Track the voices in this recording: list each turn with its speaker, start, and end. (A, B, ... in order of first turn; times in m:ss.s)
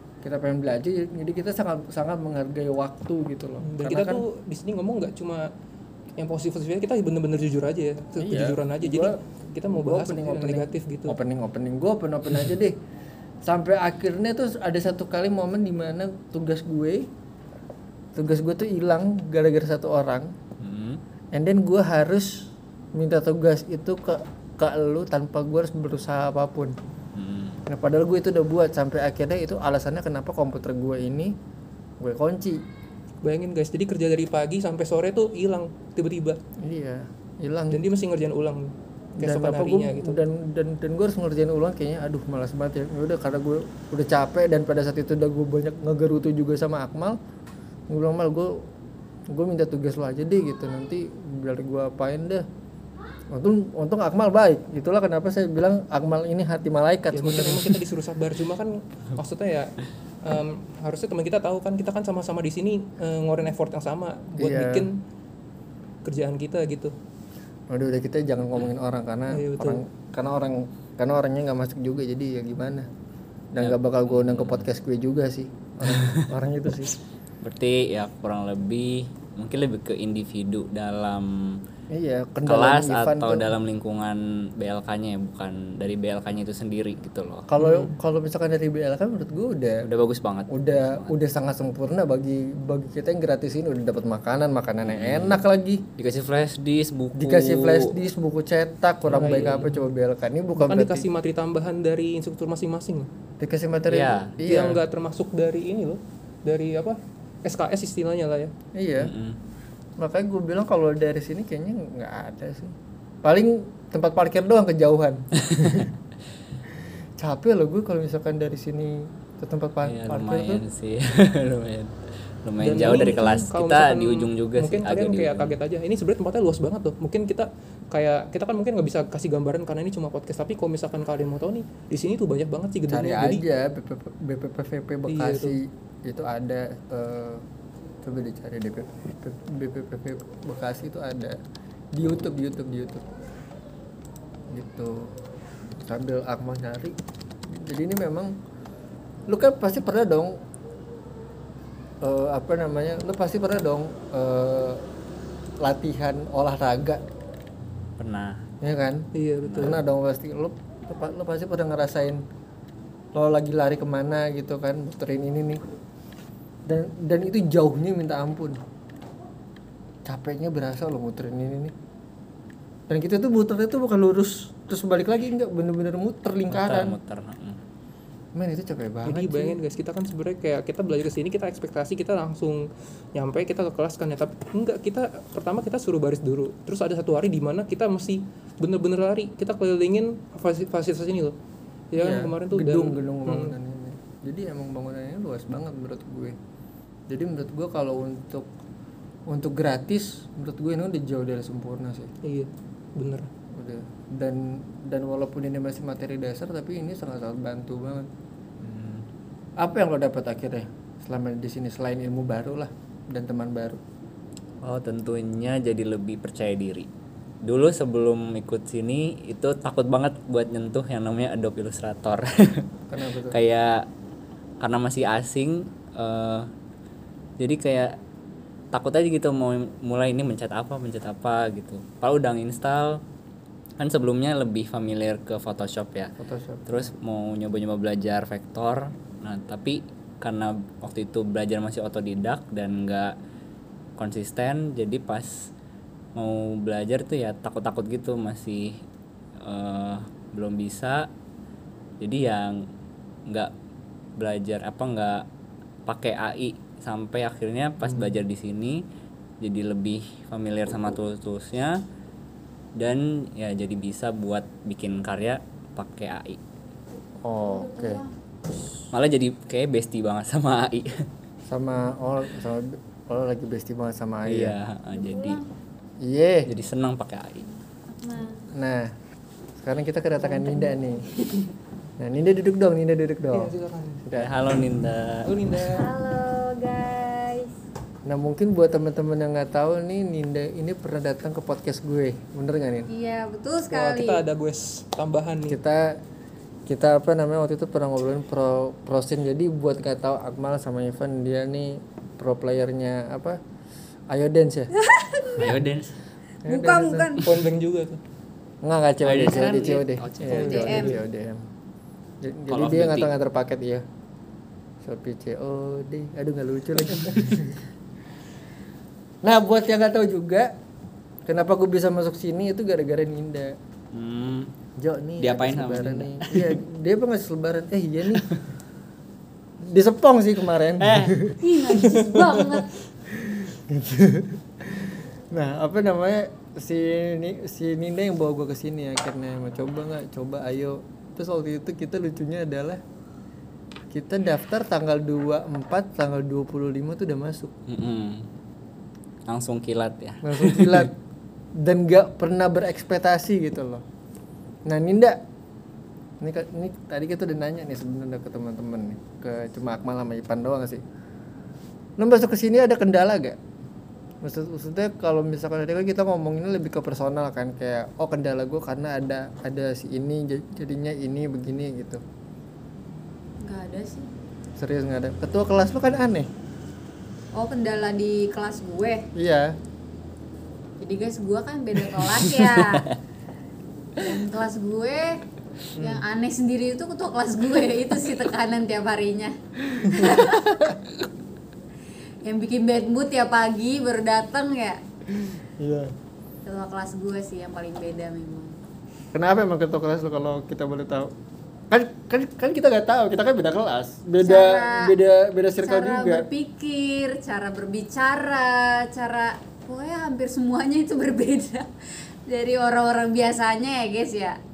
0:00.2-0:04.2 A
0:03.6-0:05.5 B
0:06.2-0:11.2 B
0:08.2-0:12.8 A
0:13.4-0:17.1 A
0:18.2-0:20.3 A
0:20.6-0:21.0 C
0:21.3-0:26.8 A
0:27.2-0:27.6 C
0:27.7-0:31.4 A
0:32.0-0:32.6 A
0:33.2-0:36.4 B
0:36.6-0:37.8 A
0:37.7-0:40.2 B
0:39.2-0:47.2 A
0:47.9-0:48.7 A
0:49.3-0:52.5 A
0:53.3-0:57.8 A
0:57.1-0:59.7 B
1:00.2-1:05.0 B
1:04.4-1:04.9 A
1:06.0-1:06.9 B
1:07.7-1:12.9 A
1:09.3-1:09.8 B
1:13.5-1:17.0 A
1:13.6-1:14.6 C
1:15.9-1:16.2 C
1:17.4-1:21.6 C
1:21.9-1:23.5 A
1:22.4-1:27.5 C
1:27.5-1:29.9 A
1:27.6-1:27.9 B
1:29.8-1:31.1 C
1:30.5-1:35.8 A
1:34.9-1:35.4 C
1:36.0-1:38.0 C
1:37.2-1:41.1 A
1:39.1-1:39.7 C
1:39.1-1:39.7 B
1:40.6-1:43.1 B
1:43.4-1:44.8 A
1:43.9-1:44.4 C
1:44.4-1:48.5 B
1:48.7-1:49.2 A
1:49.0-1:49.4 C
1:50.0-1:55.9 A
1:55.5-1:55.9 C
1:57.2-2:00.6 A
1:59.8-2:05.6 C
2:02.6-2:13.4 B
2:12.9-2:17.4 A
2:15.1-2:15.6 B
2:18.0-2:21.4 A
2:21.9-2:23.1 A
2:24.5-2:25.2 A
2:25.8-2:28.3 A
2:29.3-2:30.4 A
2:32.0-2:34.9 A
2:35.6-2:37.0 A
2:38.0-2:38.5 C
2:38.6-2:42.2 A
2:39.1-2:39.7 B
2:39.4-2:39.8 C
2:43.2-2:45.6 A
2:46.7-2:48.6 A
2:50.0-2:51.7 A
2:52.9-2:57.0 A
2:56.5-2:57.6 C
2:58.4-2:59.6 A
2:59.0-3:11.4 B
3:11.9-3:13.6 B
3:12.0-3:16.4 A
3:17.1-3:18.5 A
3:19.3-3:22.1 A
3:22.2-3:23.3 B
3:23.5-3:28.1 A
3:28.6-3:29.0 C
3:29.6-3:33.8 A
3:34.6-3:36.9 C
3:37.4-3:42.7 C
3:42.9-3:43.4 A
3:43.3-3:43.9 C
3:44.6-3:46.5 C
3:47.4-3:48.0 C
3:48.7-3:53.0 C
3:53.8-3:56.1 C
3:56.2-3:56.9 A
3:56.7-4:03.2 C
4:04.0-4:05.5 C
4:06.2-4:08.8 C
4:09.4-4:11.1 C
4:12.0-4:12.7 C
4:14.2-4:15.3 C
4:15.9-4:18.8 C
4:19.4-4:21.8 C
4:22.8-4:26.4 C
4:27.2-4:28.0 A
4:27.5-4:28.1 D
4:28.9-4:31.1 C
4:31.5-4:34.6 A
4:34.3-4:35.4 C
4:34.9-4:35.4 D
4:36.0-4:36.5 A
4:36.5-4:37.5 C
4:37.9-4:38.5 D
4:38.5-4:38.9 A
4:39.6-4:41.1 A
4:40.3-4:41.4 D
4:42.0-4:43.5 A
4:43.3-4:44.0 B
4:44.0-4:44.3 A
4:44.2-4:45.3 C
4:45.2-4:45.9 B
4:45.7-4:47.6 D
4:48.1-4:52.9 A
4:52.9-4:54.2 D
4:53.7-4:55.6 B
4:55.5-4:56.0 A
4:56.7-5:03.4 A
5:04.1-5:04.7 A
5:04.8-5:05.5 D
5:05.4-5:06.0 C
5:06.4-5:07.2 A
5:06.4-5:07.3 D
5:07.2-5:08.0 B
5:08.6-5:11.4 A
5:09.0-5:10.9 C
5:10.3-5:11.0 D
5:10.3-5:10.9 B
5:12.2-5:13.8 A
5:12.5-5:13.1 C
5:14.8-5:17.6 A
5:19.2-5:20.5 A
5:21.3-5:23.6 A
5:23.9-5:24.5 C
5:24.8-5:28.3 A
5:25.2-5:26.6 C
5:29.6-5:42.8 A
5:30.8-5:31.2 C
5:31.4-5:32.7 D
5:43.9-5:47.5 A
5:47.7-5:48.3 C
5:49.3-5:50.9 C
5:50.2-5:51.0 A
5:51.6-5:53.8 A
5:54.7-5:55.2 A
5:56.2-6:00.8 A
6:02.0-6:03.4 A
6:04.2-6:12.0 A
6:13.4-6:14.1 D
6:14.6-6:16.3 A
6:17.4-6:19.1 D
6:19.2-6:19.6 A
6:20.8-6:22.9 D
6:24.0-6:25.2 D
6:25.8-6:26.0 A
6:25.8-6:30.8 D
6:32.2-6:34.8 D
6:35.6-6:35.9 A
6:36.4-6:38.6 D
6:39.1-6:41.1 A
6:41.7-6:46.3 A
6:44.2-6:45.0 D
6:45.6-6:54.4 D